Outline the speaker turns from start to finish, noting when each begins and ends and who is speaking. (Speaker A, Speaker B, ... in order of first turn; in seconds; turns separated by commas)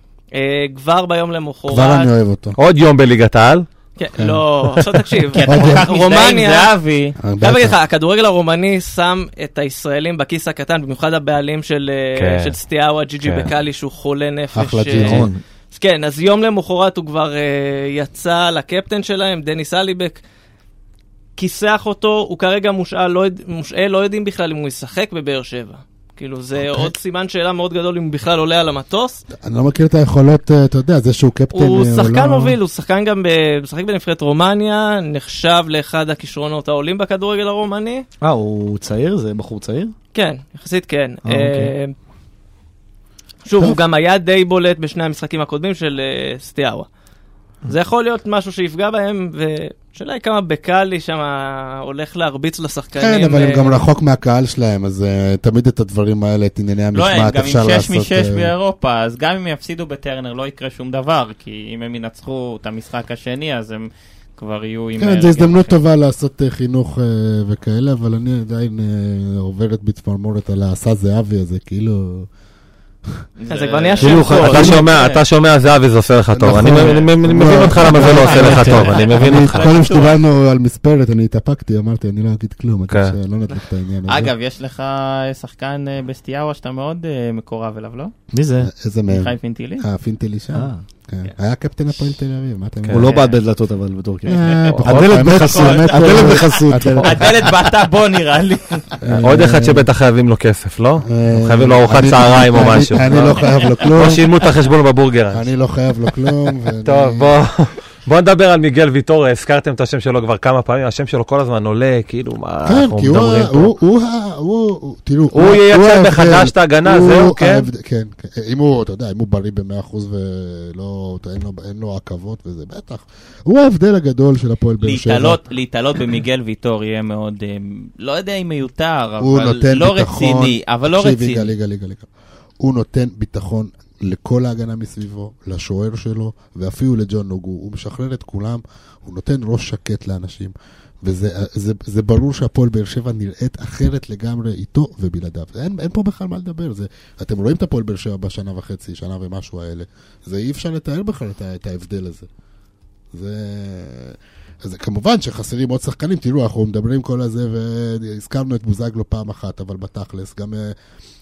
Speaker A: 0.3-2.1, Speaker B: 1.7-2.6, Speaker C: 2.6-3.7, Speaker A: 4.0-6.7, Speaker B: 4.2-4.4, Speaker D: 5.3-7.2, Speaker B: 5.5-5.9, Speaker B: 7.2-7.8, Speaker A: 7.4-20.2, Speaker C: 12.2-12.6, Speaker C: 13.2-13.5, Speaker B: 14.5-15.3, Speaker E: 15.0-15.4, Speaker A: 21.4-29.2, Speaker B: 26.6-26.9, Speaker B: 29.4-32.6, Speaker A: 31.5-38.0, Speaker E: 38.2-39.9, Speaker A: 40.1-41.9, Speaker E: 41.3-41.7, Speaker A: 43.5-46.9, Speaker A: 47.7-53.8, Speaker B: 53.0-58.5, Speaker D: 56.9-65.8, Speaker B: 65.0-72.3, Speaker D: 73.4-75.2, Speaker A: 73.5-74.7, Speaker E: 74.0-74.8, Speaker C: 74.1-79.7, Speaker B: 76.3-84.3, Speaker E: 76.4-78.8, Speaker D: 77.9-80.2, Speaker C: 82.9-83.2, Speaker D: 84.1-88.1, Speaker E: 88.3-88.7, Speaker B: 88.6-93.1, Speaker D: 89.1-89.8, Speaker E: 90.5-90.8, Speaker E: 92.9-97.5, Speaker D: 93.0-93.4, Speaker B: 94.3-97.4, Speaker C: 94.7-95.4, Speaker D: 95.5-98.9, Speaker B: 99.0-99.9, Speaker C: 99.1-105.5, Speaker B: 101.0-104.3, Speaker B: 105.3-107.3, Speaker C: 106.8-113.7, Speaker B: 112.7-125.4, Speaker C: 115.3-117.7, Speaker D: 124.8-131.5, Speaker B: 129.2-132.1, Speaker B: 132.6-152.3, Speaker B: 153.1-160.8